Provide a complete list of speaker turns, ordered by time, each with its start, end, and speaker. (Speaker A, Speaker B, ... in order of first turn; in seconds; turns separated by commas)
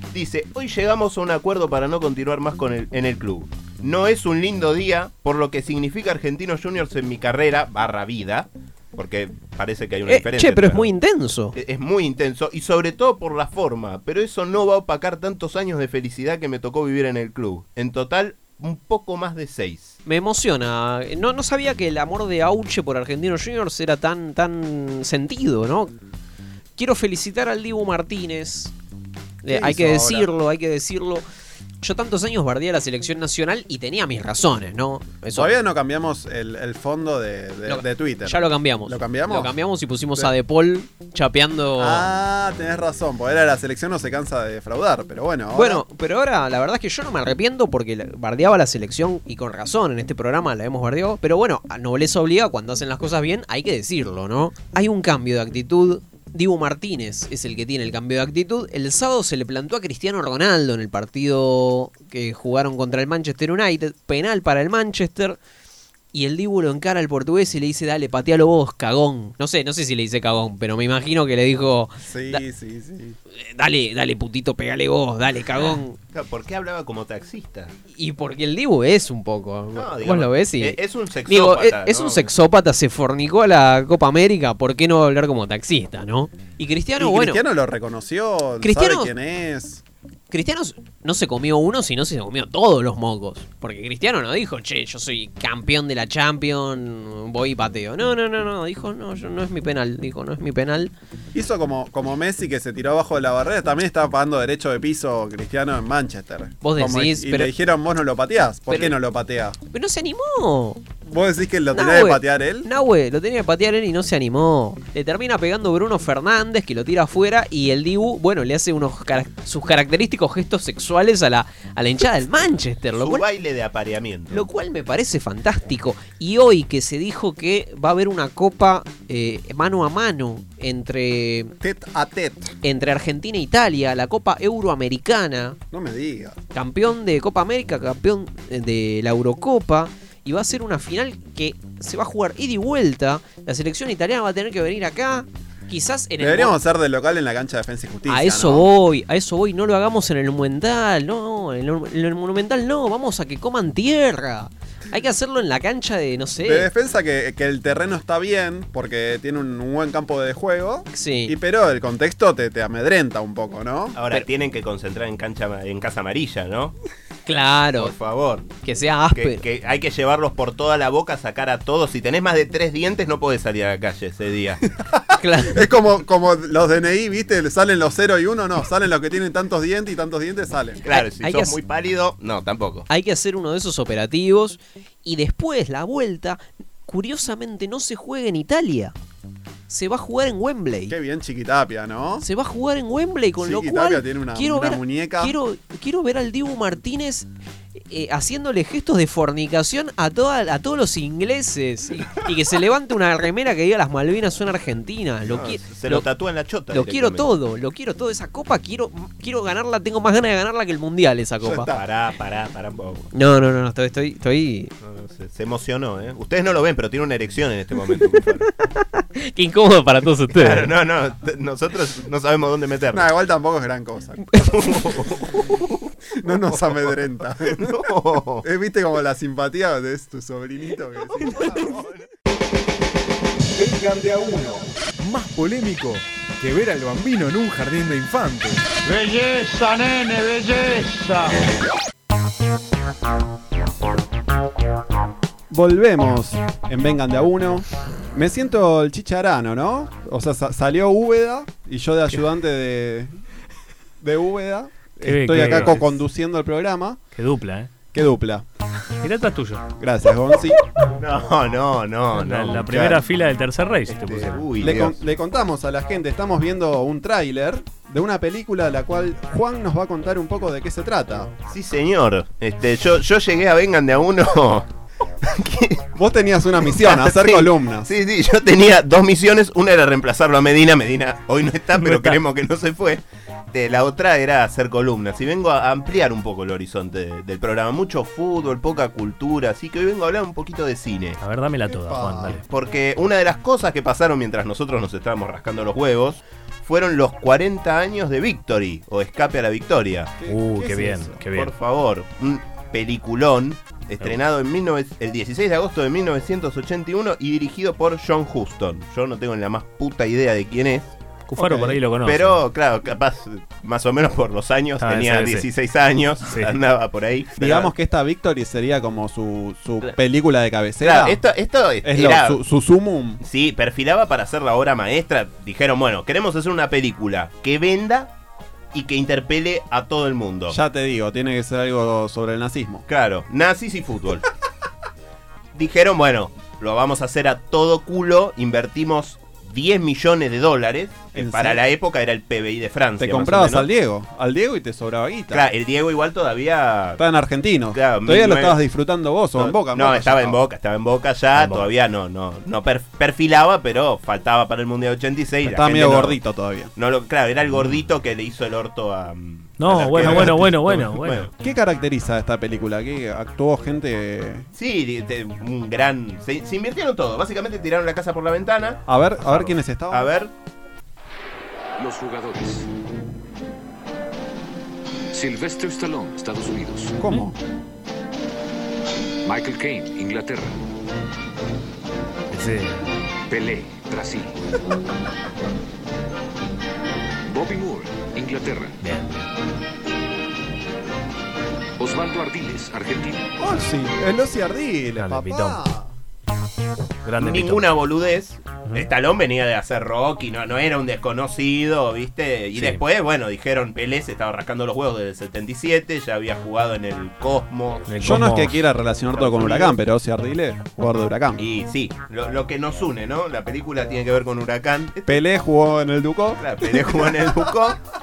Speaker A: 0.1-10.9, Speaker B: 10.1-11.6, Speaker A: 11.5-20.0, Speaker B: 20.1-25.9, Speaker B: 26.8-28.7, Speaker B: 29.4-31.2, Speaker C: 29.5-30.3, Speaker B: 31.8-35.5, Speaker C: 35.4-39.5, Speaker B: 37.7-42.1, Speaker C: 41.8-45.8, Speaker B: 45.5-65.4, Speaker B: 66.1-72.4, Speaker C: 72.0-73.2, Speaker B: 73.3-76.0, Speaker A: 76.1-77.7, Speaker B: 77.9-87.4, Speaker A: 79.8-82.3, Speaker C: 87.0-89.8, Speaker B: 88.6-89.1, Speaker B: 90.3-100.9, Speaker C: 101.3-109.6, Speaker B: 106.6-107.5, Speaker B: 108.7-109.0, Speaker B: 109.7-110.8, Speaker C: 111.0-112.7, Speaker B: 111.7-123.2, Speaker A: 123.0-124.5, Speaker B: 124.3-131.6, Speaker C: 131.6-132.5, Speaker B: 132.6-135.6, Speaker C: 135.7-136.4, Speaker B: 136.5-146.6, Speaker C: 146.2-148.7, Speaker B: 148.1-156.7, Speaker C: 156.4-164.0, Speaker B: 160.9-161.3, Speaker A: 163.9-166.8, Speaker B: 167.3-167.9, Speaker A: 167.8-168.5, Speaker B: 168.6-169.4, Speaker A: 169.2-174.6, Speaker C: 174.9-180.8, Speaker B: 175.2-175.7, Speaker A: 180.8-182.9, Speaker B: 180.9-181.6, Speaker B: 182.9-188.9, Speaker B: 189.7-190.9, Speaker C: 190.9-192.2, Speaker B: 192.2-197.3, Speaker C: 193.4-195.4, Speaker B: 197.9-206.1, Speaker A: 205.3-207.3, Speaker B: 206.7-211.7, Speaker A: 211.4-213.1, Speaker B: 213.1-214.7, Speaker A: 214.8-218.5, Speaker B: 218.6-220.7, Speaker A: 220.3-223.1, Speaker C: 222.9-224.3, Speaker A: 224.3-225.7, Speaker C: 226.2-227.9, Speaker A: 227.5-228.4, Speaker C: 228.4-231.8, Speaker A: 231.3-232.0, Speaker D: 233.6-238.6, Speaker E: 238.8-241.4, Speaker C: 245.5-253.1, Speaker C: 254.0-257.0, Speaker F: 255.0-255.8, Speaker F: 257.1-257.7, Speaker C: 257.9-258.5, Speaker F: 259.0-259.6, Speaker C: 259.8-260.6, Speaker A: 261.0-263.0, Speaker F: 262.1-264.8, Speaker A: 263.9-265.0, Speaker C: 264.6-271.3, Speaker A: 271.5-274.7, Speaker A: 275.2-275.8, Speaker C: 275.9-277.9, Speaker A: 276.7-291.2, Speaker F: 281.8-282.2, Speaker F: 291.2-292.4, Speaker C: 291.7-292.4, Speaker A: 292.5-300.1, Speaker C: 300.2-301.2, Speaker F: 300.3-301.5, Speaker A: 301.3-310.9, Speaker F: 311.3-312.4, Speaker C: 311.4-311.8, Speaker A: 312.0-317.7, Speaker F: 314.8-315.5, Speaker F: 316.3-316.6, Speaker C: 317.4-321.2, Speaker A: 320.8-322.4, Speaker C: 321.8-323.2, Speaker A: 323.2-328.1, Speaker A: 328.7-330.6, Speaker C: 330.5-332.9, Speaker A: 332.9-334.3, Speaker A: 335.5-343.7, Speaker C: 341.1-341.6, Speaker C: 343.0-345.4, Speaker A: 345.3-347.0, Speaker C: 347.0-350.4, Speaker A: 347.7-348.6, Speaker A: 349.4-356.2, Speaker F: 351.4-351.7, Speaker C: 355.4-356.7, Speaker A: 356.8-361.3, Speaker F: 359.6-361.3, Speaker C: 360.0-360.5, Speaker C: 361.4-364.5, Speaker A: 364.6-370.3, Speaker C: 368.9-370.1, Speaker G: 371.8-372.7, Speaker G: 375.1-377.0, Speaker C: 377.0-377.4, Speaker G: 379.2-380.6, Speaker F: 382.3-382.9, Speaker G: 383.3-384.4, Speaker G: 387.2-388.8, Speaker F: 388.8-389.3, Speaker G: 391.8-393.3, Speaker C: 393.4-395.9, Speaker F: 395.0-395.6, Speaker F: 397.1-397.7, Speaker A: 397.2-408.2, Speaker F: 402.6-402.8, Speaker F: 407.9-408.6, Speaker C: 408.0-411.5, Speaker A: 409.1-409.8, Speaker A: 411.4-415.2, Speaker C: 415.1-417.3, Speaker A: 416.4-417.8